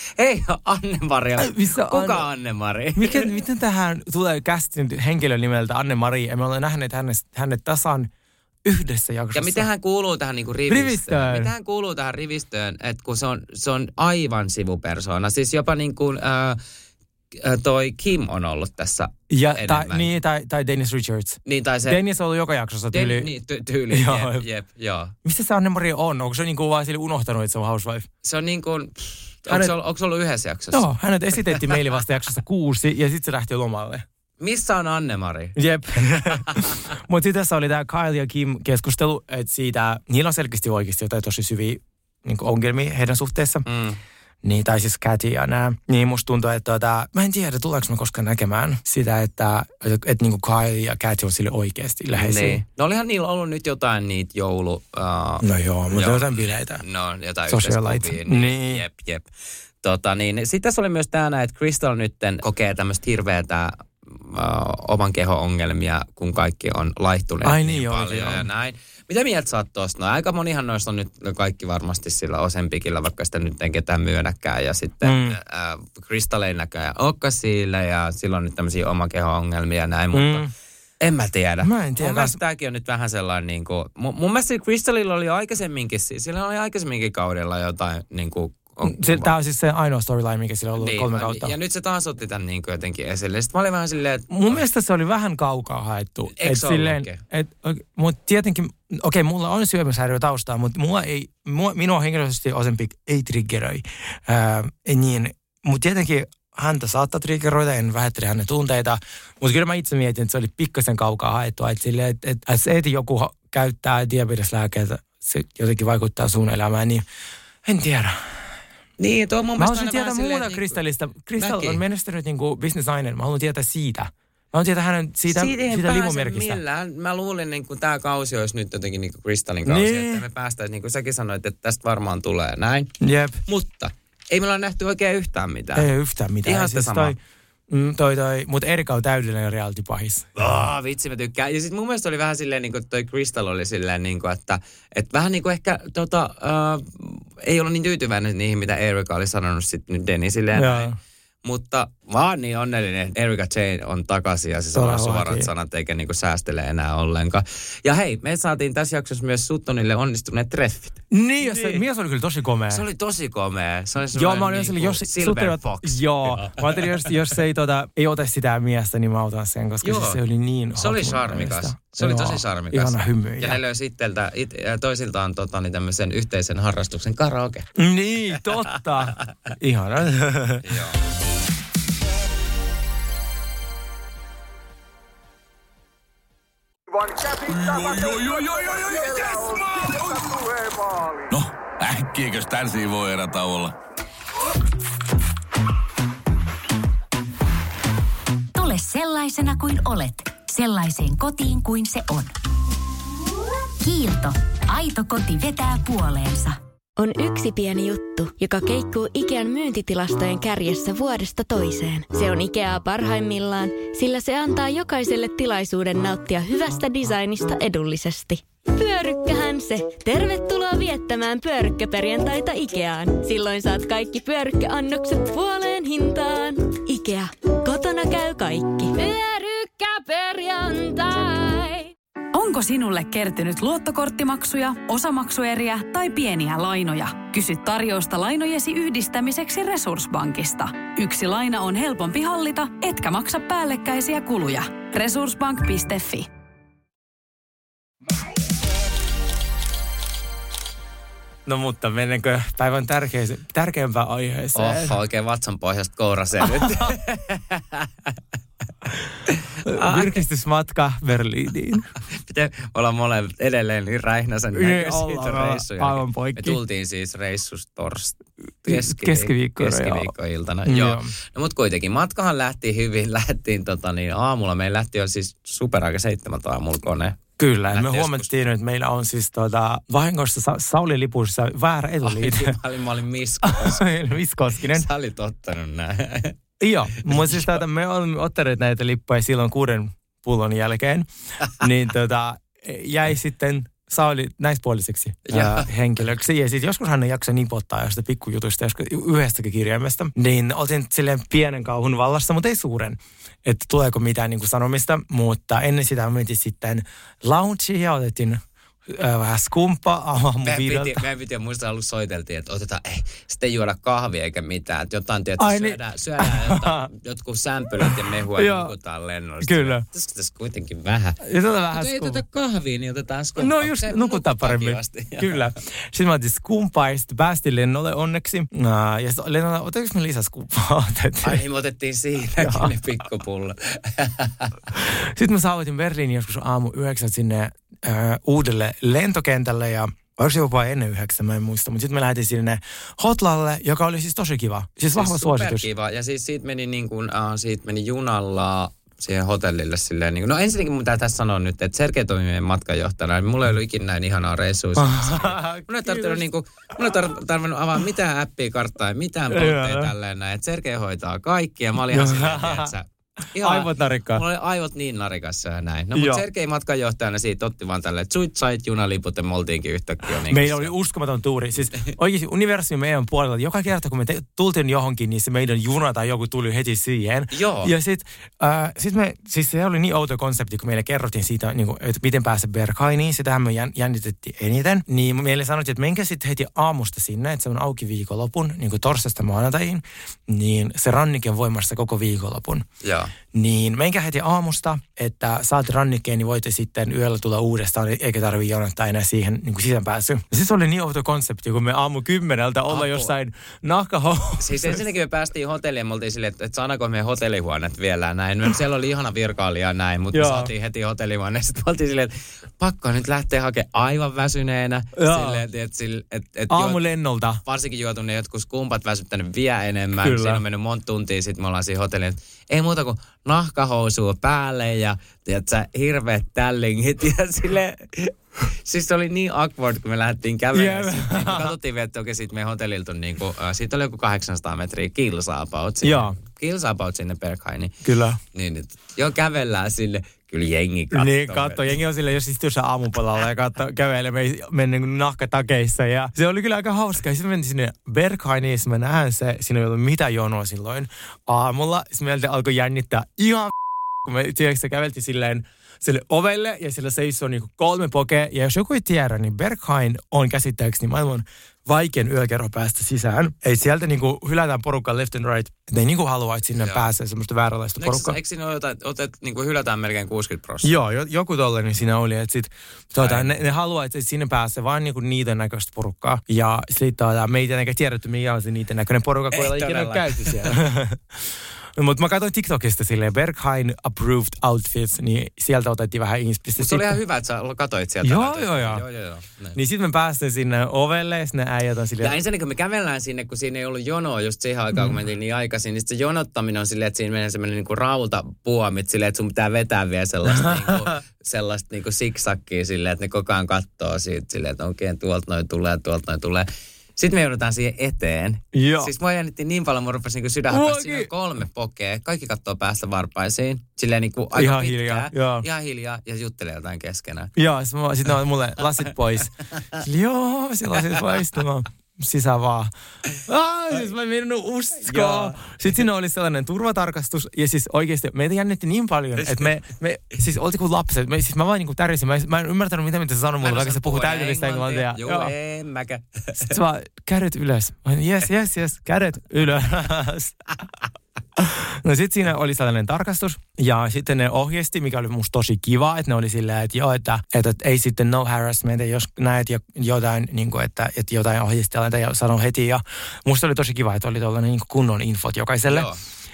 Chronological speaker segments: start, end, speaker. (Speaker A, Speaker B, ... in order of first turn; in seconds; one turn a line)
Speaker A: 0.2-3.3
Speaker B: 1.4-2.3
Speaker B: 2.9-8.1
Speaker B: 8.6-9.7
Speaker A: 9.3-16.6
Speaker B: 10.7-11.5
Speaker A: 17.3-20.1
Speaker B: 19.3-23.3
Speaker A: 21.4-22.0
Speaker A: 22.9-25.1
Speaker B: 23.9-24.4
Speaker B: 25.2-28.1
Speaker A: 28.2-31.8
Speaker B: 29.5-29.7
Speaker B: 30.7-34.0
Speaker A: 34.4-36.8
Speaker B: 35.5-43.6
Speaker A: 43.6-44.0
Speaker B: 44.4-52.6
Speaker A: 52.1-59.3
Speaker B: 55.4-56.8
Speaker B: 57.5-58.8
Speaker A: 59.8-80.5
Speaker B: 67.4-68.5
Speaker B: 75.0-75.4
Speaker B: 80.1-80.5
Speaker A: 81.0-89.3
Speaker B: 81.6-82.4
Speaker B: 88.8-91.5
Speaker A: 90.8-94.6
Speaker B: 94.3-117.0
Speaker A: 96.3-97.2
Speaker B: 117.6-118.2
Speaker A: 119.0-120.8
Speaker B: 119.6-126.6
Speaker A: 121.4-121.8
Speaker A: 125.3-132.9
Speaker B: 129.6-130.2
Speaker B: 133.0-133.4
Speaker A: 133.5-135.9
Speaker B: 135.7-137.2
Speaker A: 136.4-137.1
Speaker B: 137.7-140.3
Speaker A: 140.3-150.9
Speaker B: 150.5-150.9
Speaker A: 151.4-161.8
Speaker B: 154.7-155.5
Speaker B: 161.1-162.8
Speaker A: 162.7-166.8
Speaker B: 164.1-173.6
Speaker A: 169.8-170.2
Speaker A: 170.8-177.7
Speaker B: 177.8-180.8
Speaker A: 180.6-181.0
Speaker C: 187.3-190.5
Speaker C: 191.3-193.7
Speaker D: 198.5-202.3
Speaker D: 203.8-206.6
Speaker E: 207.0-229.2
Speaker F: 232.3-246.3
Speaker B: 251.4-255.0
Speaker A: 254.5-258.2
Speaker B: 256.4-256.9
Speaker A: 259.3-260.2
Speaker B: 259.6-261.9
Speaker A: 262.2-278.3
Speaker B: 264.5-266.6
Speaker B: 268.6-270.1
Speaker B: 270.6-271.1
Speaker B: 277.4-282.6
Speaker A: 282.0-283.9
Speaker B: 283.4-284.9
Speaker A: 284.6-286.3
Speaker B: 286.6-311.0
Speaker A: 287.0-287.6
Speaker A: 295.3-295.7
Speaker A: 310.4-325.5
Speaker B: 315.4-316.9
Speaker B: 317.8-318.7
Speaker B: 319.4-319.8
Speaker B: 321.2-322.2
Speaker B: 323.4-331.4
Speaker A: 331.2-334.6
Speaker B: 332.4-332.7
Speaker B: 334.7-345.7
Speaker A: 344.9-370.7
Speaker B: 354.8-356.2
Speaker B: 359.3-359.9
Speaker B: 361.9-362.7
Speaker B: 363.4-364.2
Speaker B: 365.9-366.2
Speaker B: 370.3-392.6
Speaker A: 377.3-377.7
Speaker A: 392.8-393.1
Speaker B: 393.3-404.8
Speaker A: 402.7-403.1
Speaker A: 404.4-416.8
Speaker B: 410.1-410.5
Speaker B: 414.9-415.4
Speaker B: 416.5-417.4
Speaker A: 417.4-437.7
Speaker B: 420.0-420.4
Speaker B: 430.5-431.6
Speaker B: 435.8-436.1
Speaker B: 437.8-438.2
Speaker A: 438.3-441.7
Speaker B: 440.9-468.2
Speaker A: 466.6-466.9
Speaker A: 467.8-470.7
Speaker B: 470.6-487.0
Speaker A: 473.0-473.4
Speaker A: 479.3-480.6
Speaker A: 486.6-489.6
Speaker B: 488.0-488.8
Speaker B: 489.5-492.2
Speaker A: 492.0-517.3
Speaker B: 500.3-500.9
Speaker B: 508.5-508.9
Speaker B: 510.5-511.1
Speaker B: 514.3-515.4
Speaker B: 517.4-535.3
Speaker A: 524.8-525.5
Speaker A: 529.2-529.5
Speaker A: 533.4-536.6
Speaker B: 536.4-540.4
Speaker B: 541.4-555.9
Speaker A: 555.7-556.0